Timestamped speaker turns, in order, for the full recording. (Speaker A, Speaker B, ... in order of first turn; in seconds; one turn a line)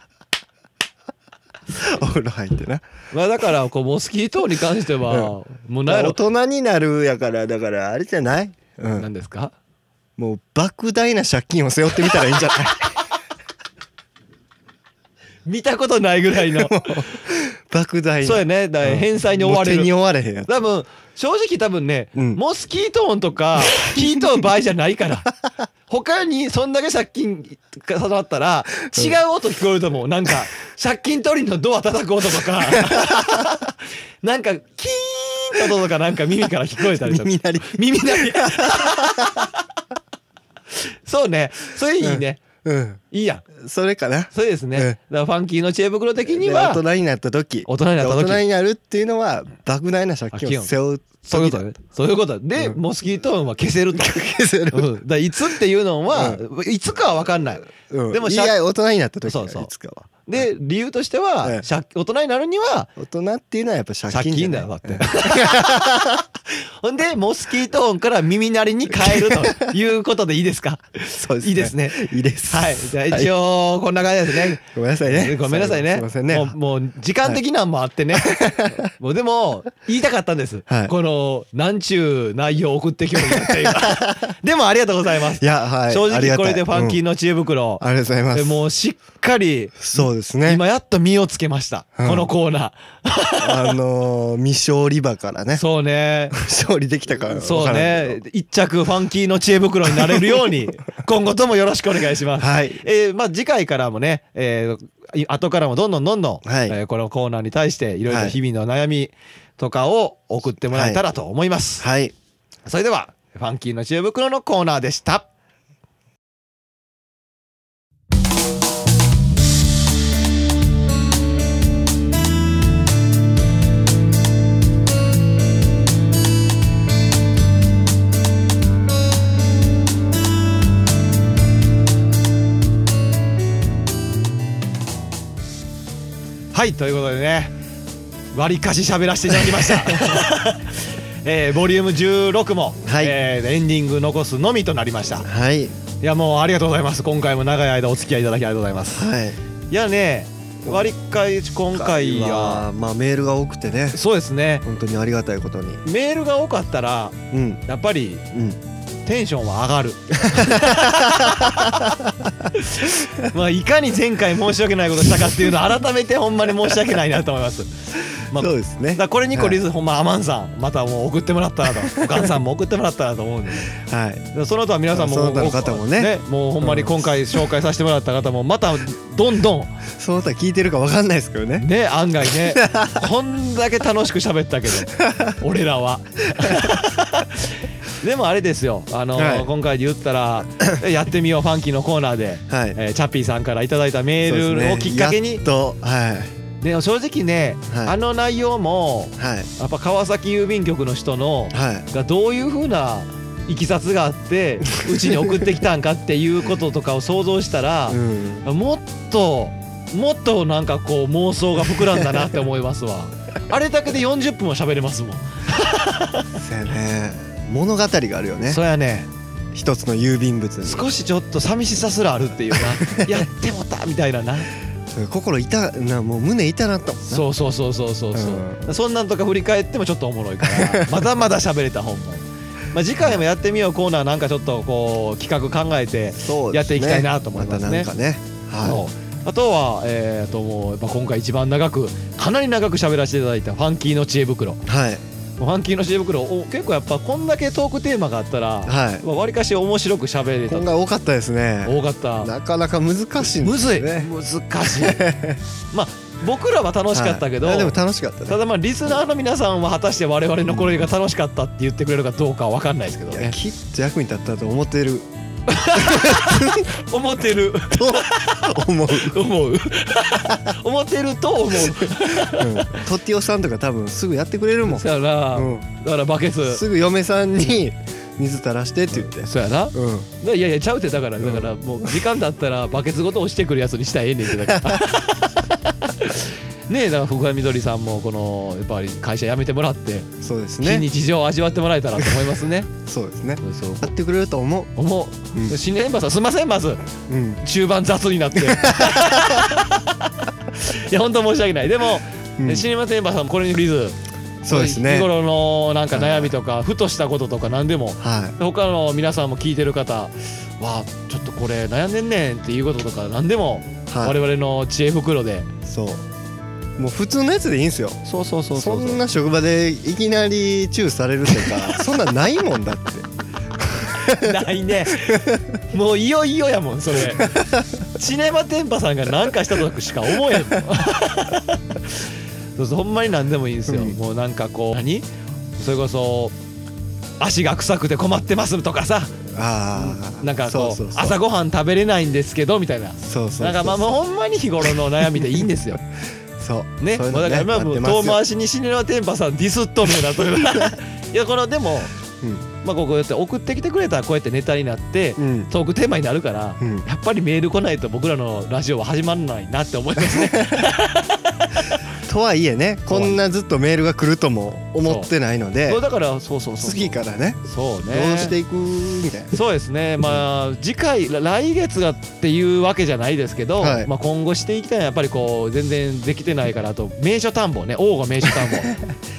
Speaker A: 1.7-2.8
Speaker B: 3.1-6.2
Speaker A: 5.1-5.3
Speaker A: 5.8-9.1
Speaker B: 8.9-9.5
Speaker A: 10.2-13.0
Speaker B: 15.4-17.1
Speaker A: 16.5-20.5
Speaker B: 18.2-19.9
Speaker B: 20.5-25.3
Speaker A: 23.8-24.3
Speaker B: 25.9-39.6
Speaker A: 32.7-33.6
Speaker A: 36.8-39.5
Speaker B: 40.7-42.4
Speaker A: 42.0-43.0
Speaker B: 43.1-43.5
Speaker A: 43.5-45.0
Speaker B: 44.3-46.8
Speaker A: 46.2-51.6
Speaker B: 47.7-48.4
Speaker B: 50.3-54.1
Speaker A: 53.9-54.9
Speaker B: 54.7-58.5
Speaker A: 56.1-56.4
Speaker A: 57.9-60.1
Speaker B: 59.2-59.7
Speaker B: 60.2-62.9
Speaker A: 63.0-66.2
Speaker B: 64.1-93.8
Speaker A: 68.9-69.7
Speaker A: 71.2-73.3
Speaker A: 74.5-76.5
Speaker A: 78.1-78.9
Speaker A: 80.7-80.9
Speaker A: 83.1-84.3
Speaker A: 85.4-87.0
Speaker A: 87.8-88.6
Speaker A: 89.8-90.6
Speaker A: 92.0-92.3
Speaker A: 93.4-95.6
Speaker B: 95.5-96.3
Speaker A: 96.3-98.2
Speaker B: 97.3-111.9
Speaker A: 99.9-100.6
Speaker A: 102.4-102.8
Speaker A: 106.4-106.8
Speaker A: 108.1-108.3
Speaker A: 110.7-111.0
Speaker A: 111.8-112.1
Speaker B: 112.7-115.2
Speaker B: 136.5-137.5
Speaker B: 138.3-145.3
Speaker A: 139.5-140.2
Speaker A: 142.8-143.1
Speaker A: 145.2-145.8
Speaker B: 146.0-149.1
Speaker A: 148.9-149.4
Speaker B: 149.7-152.7
Speaker A: 151.7-154.0
Speaker B: 153.9-154.6
Speaker A: 154.6-155.8
Speaker B: 155.8-158.3
Speaker A: 157.3-157.6
Speaker A: 158.3-158.6
Speaker B: 159.1-173.8
Speaker A: 160.2-163.3
Speaker A: 168.3-169.6
Speaker A: 171.8-172.3
Speaker A: 173.7-174.3
Speaker B: 174.3-179.8
Speaker A: 174.9-177.4
Speaker A: 180.0-181.7
Speaker B: 181.6-195.4
Speaker A: 182.3-183.1
Speaker A: 184.9-185.4
Speaker A: 186.4-186.8
Speaker A: 189.2-189.5
Speaker A: 192.5-192.8
Speaker A: 194.2-196.3
Speaker B: 196.6-216.3
Speaker A: 197.7-197.9
Speaker A: 199.2-199.5
Speaker A: 201.5-201.8
Speaker A: 207.9-208.4
Speaker A: 216.3-218.6
Speaker B: 218.5-219.1
Speaker A: 219.5-220.9
Speaker B: 220.6-224.5
Speaker A: 222.8-223.2
Speaker A: 224.9-227.2
Speaker B: 227.1-237.9
Speaker A: 228.1-228.7
Speaker A: 230.4-230.9
Speaker A: 236.2-238.8
Speaker B: 238.6-244.6
Speaker A: 244.6-245.0
Speaker B: 245.4-250.7
Speaker A: 248.7-249.0
Speaker A: 250.5-254.1
Speaker B: 251.6-252.3
Speaker B: 253.4-255.0
Speaker A: 254.7-255.4
Speaker B: 255.7-257.8
Speaker A: 256.9-258.4
Speaker B: 258.3-263.4
Speaker A: 260.5-260.8
Speaker A: 263.1-265.1
Speaker B: 265.5-272.9
Speaker A: 265.7-266.8
Speaker A: 267.7-269.2
Speaker A: 271.6-275.6
Speaker B: 274.7-276.6
Speaker A: 276.4-280.1
Speaker B: 278.9-290.1
Speaker A: 281.2-281.5
Speaker A: 284.4-284.8
Speaker A: 290.2-290.9
Speaker B: 290.6-292.7
Speaker A: 292.9-294.7
Speaker B: 293.4-293.9
Speaker B: 294.8-304.0
Speaker A: 297.1-297.4
Speaker A: 298.4-299.5
Speaker A: 302.4-302.7
Speaker A: 304.4-305.1
Speaker B: 304.5-315.5
Speaker A: 305.9-306.3
Speaker A: 308.0-308.4
Speaker A: 313.9-314.2
Speaker A: 315.6-316.0
Speaker A: 316.8-318.0
Speaker B: 318.0-319.0
Speaker A: 318.5-323.1
Speaker A: 323.6-325.4
Speaker B: 323.9-327.4
Speaker A: 327.0-327.8
Speaker B: 327.9-335.1
Speaker A: 333.7-333.9
Speaker B: 335.6-336.3
Speaker B: 337.2-345.8
Speaker A: 339.3-341.2
Speaker A: 343.0-343.9
Speaker A: 345.1-345.4
Speaker A: 346.4-348.2
Speaker B: 346.8-351.9
Speaker A: 350.4-350.7
Speaker B: 352.6-361.8
Speaker A: 355.2-355.5
Speaker A: 360.0-360.7
Speaker A: 362.0-365.8
Speaker B: 362.9-363.2
Speaker B: 364.8-365.1
Speaker B: 365.7-368.3
Speaker A: 366.6-369.3
Speaker B: 369.3-378.7
Speaker A: 373.6-373.9
Speaker A: 378.4-378.9